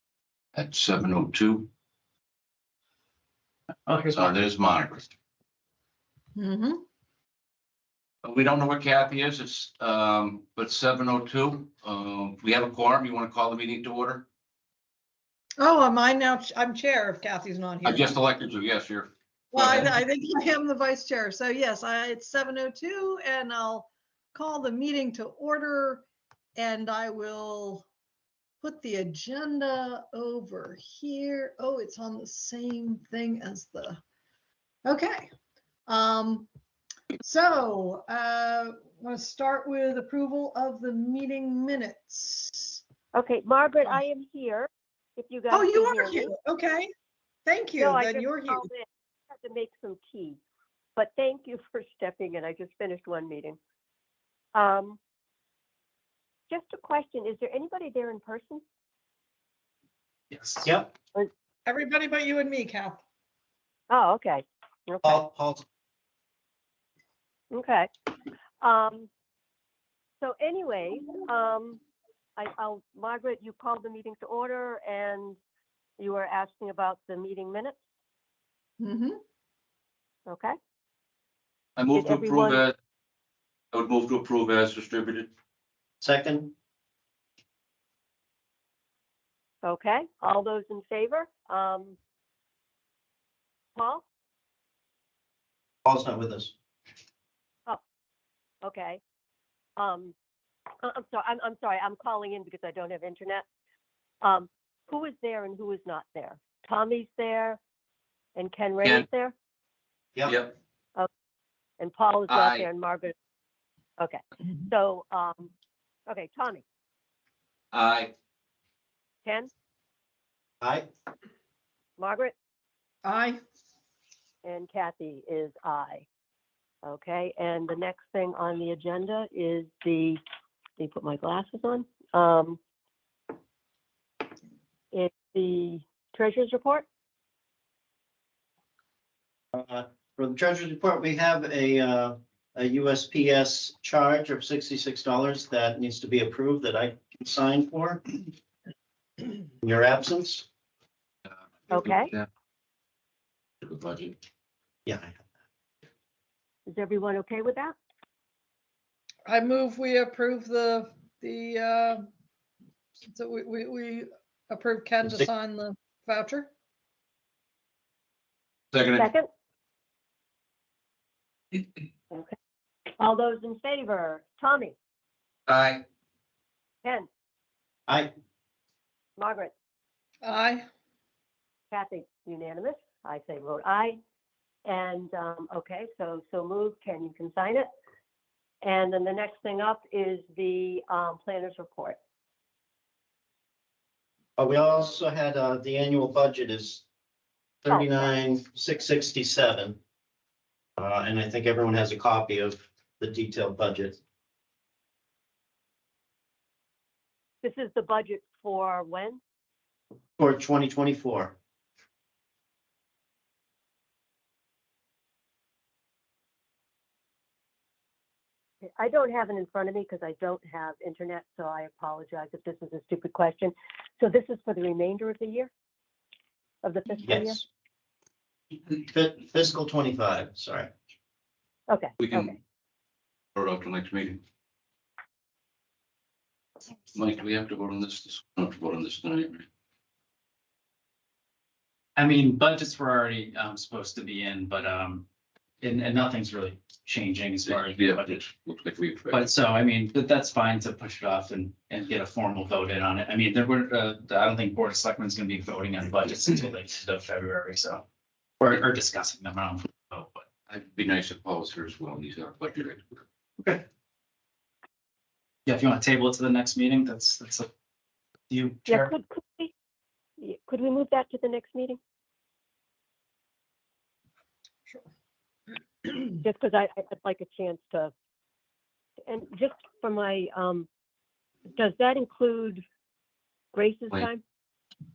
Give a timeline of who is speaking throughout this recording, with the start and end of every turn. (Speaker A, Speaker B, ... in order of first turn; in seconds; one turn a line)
Speaker A: 0.6-1.7
Speaker B: 3.9-4.3
Speaker A: 4.1-5.0
Speaker C: 6.4-6.8
Speaker A: 8.2-14.3
Speaker C: 15.6-18.2
Speaker A: 17.8-20.0
Speaker C: 19.5-27.9
Speaker C: 28.6-34.0
Speaker C: 34.9-35.3
Speaker C: 35.9-36.5
Speaker C: 37.2-42.8
Speaker D: 43.1-46.3
Speaker C: 45.5-46.9
Speaker C: 47.5-48.7
Speaker D: 47.8-50.4
Speaker D: 51.0-53.6
Speaker D: 54.5-55.0
Speaker D: 56.5-58.6
Speaker B: 60.3-60.7
Speaker E: 60.6-60.9
Speaker C: 61.7-63.0
Speaker D: 63.9-65.2
Speaker E: 65.0-65.7
Speaker D: 67.5-67.9
Speaker D: 68.6-69.1
Speaker D: 70.2-71.8
Speaker D: 72.4-75.4
Speaker D: 76.0-77.8
Speaker C: 78.8-79.2
Speaker D: 80.3-80.6
Speaker A: 81.8-82.8
Speaker D: 82.0-82.6
Speaker A: 83.7-85.3
Speaker E: 86.0-86.5
Speaker D: 89.6-92.0
Speaker D: 93.8-94.0
Speaker E: 95.8-96.5
Speaker D: 98.6-99.0
Speaker D: 99.8-100.2
Speaker D: 100.8-103.5
Speaker D: 104.2-107.6
Speaker D: 108.4-109.3
Speaker A: 110.3-110.5
Speaker D: 111.8-113.1
Speaker A: 112.3-112.7
Speaker D: 114.0-115.5
Speaker D: 116.1-116.6
Speaker A: 117.7-118.1
Speaker D: 119.2-119.5
Speaker E: 120.6-120.9
Speaker D: 122.0-122.3
Speaker C: 123.0-123.4
Speaker D: 124.4-126.1
Speaker D: 126.8-130.2
Speaker D: 130.8-132.6
Speaker D: 134.9-136.9
Speaker E: 139.5-148.0
Speaker E: 149.6-150.5
Speaker D: 151.7-152.1
Speaker A: 151.7-152.3
Speaker A: 153.6-154.2
Speaker E: 154.9-155.2
Speaker D: 156.7-157.8
Speaker C: 159.3-162.1
Speaker C: 163.1-166.5
Speaker A: 168.7-169.1
Speaker D: 169.0-169.3
Speaker D: 173.0-174.8
Speaker A: 175.5-175.8
Speaker D: 176.8-177.1
Speaker D: 179.2-179.5
Speaker C: 180.2-180.7
Speaker D: 181.7-184.0
Speaker D: 184.7-187.7
Speaker D: 188.6-192.0
Speaker E: 194.4-196.8
Speaker E: 197.6-199.8
Speaker D: 197.7-198.1
Speaker E: 200.8-204.0
Speaker D: 207.4-209.2
Speaker E: 210.2-211.3
Speaker D: 218.8-225.5
Speaker D: 226.6-227.4
Speaker E: 227.0-227.4
Speaker E: 228.8-230.7
Speaker D: 231.7-232.4
Speaker A: 232.0-232.3
Speaker A: 233.3-234.2
Speaker A: 236.9-239.5
Speaker B: 242.0-245.1
Speaker B: 245.6-248.2
Speaker A: 247.5-249.3
Speaker B: 249.1-257.8
Speaker B: 258.4-260.3
Speaker A: 260.5-263.0
Speaker B: 265.5-267.5
Speaker B: 268.3-268.9
Speaker D: 268.7-269.5
Speaker D: 270.2-271.8
Speaker D: 276.2-277.9
Speaker D: 279.1-280.7
Speaker D: 281.6-282.6
Speaker D: 283.5-284.2